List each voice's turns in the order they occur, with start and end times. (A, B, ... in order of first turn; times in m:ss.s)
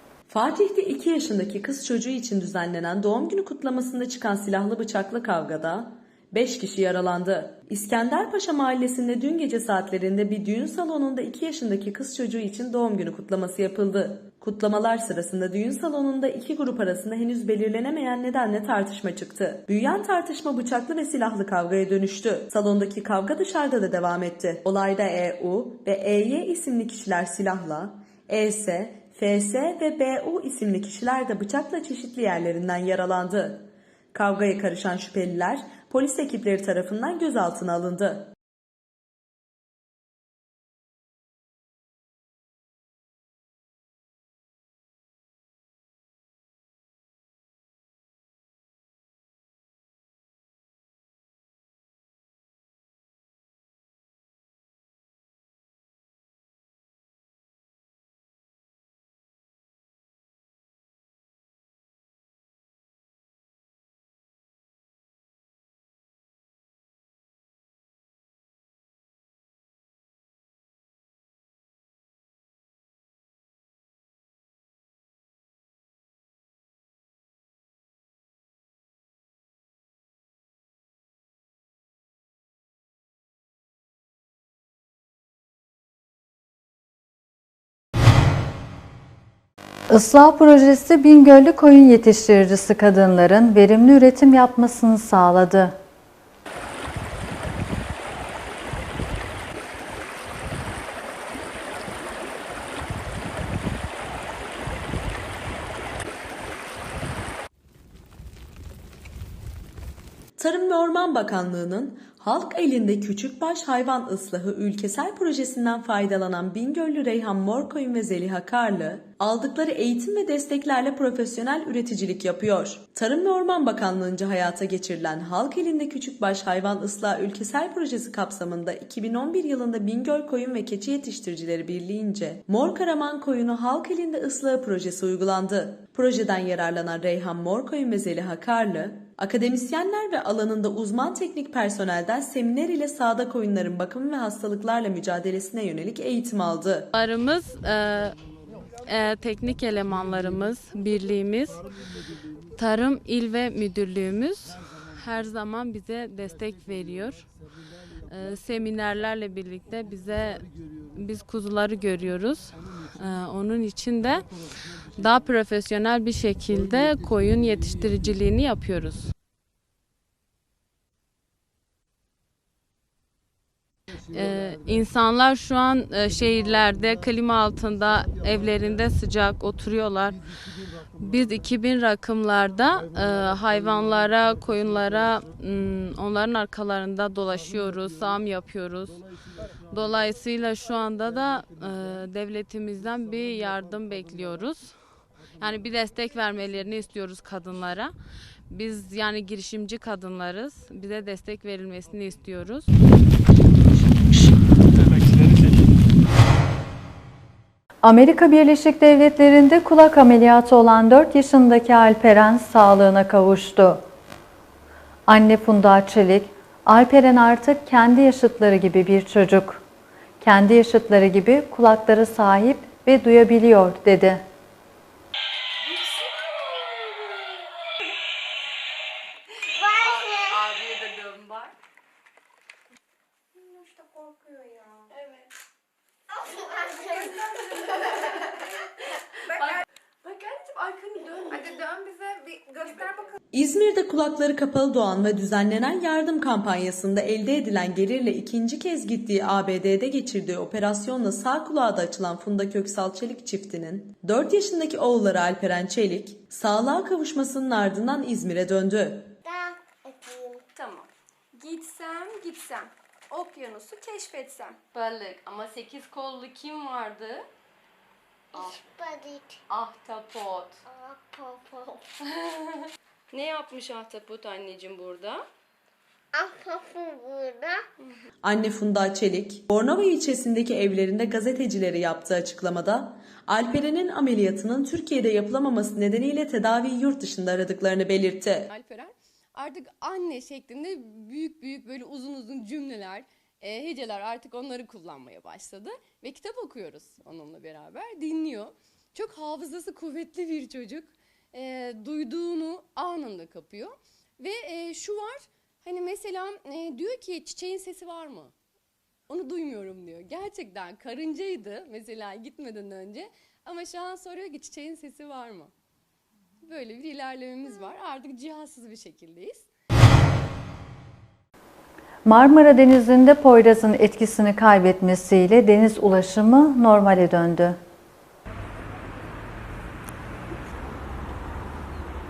0:00.3-0:38.3 A
1:29.9-1:35.8 B
1:50.4-2:26.9 A
2:26.9-2:28.2 C
2:28.8-2:31.6 C
2:32.6-2:37.2 C
2:38.1-2:44.3 C
2:45.0-2:49.1 C
2:54.1-3:00.2 C
3:01.0-3:09.0 C
3:09.7-3:14.8 C
3:15.4-3:17.9 C
3:18.5-3:22.7 C
3:27.8-3:33.8 B
3:35.1-3:39.6 B
3:40.2-3:44.2 B
3:49.9-3:51.1 D
3:56.8-3:57.3 D
4:00.5-4:02.7 D
4:03.3-4:19.2 A
4:19.2-4:20.4 E
4:20.6-4:27.2 F
4:28.3-4:28.6 F
4:28.8-4:29.4 E
4:29.5-4:30.6 F
4:30.7-4:31.8 E
4:33.1-4:35.2 F
4:36.1-4:37.6 E
4:38.2-4:48.5 A
4:48.5-5:08.3 F
5:09.1-5:15.5 F
5:16.4-5:19.5 F
5:22.0-5:27.6 B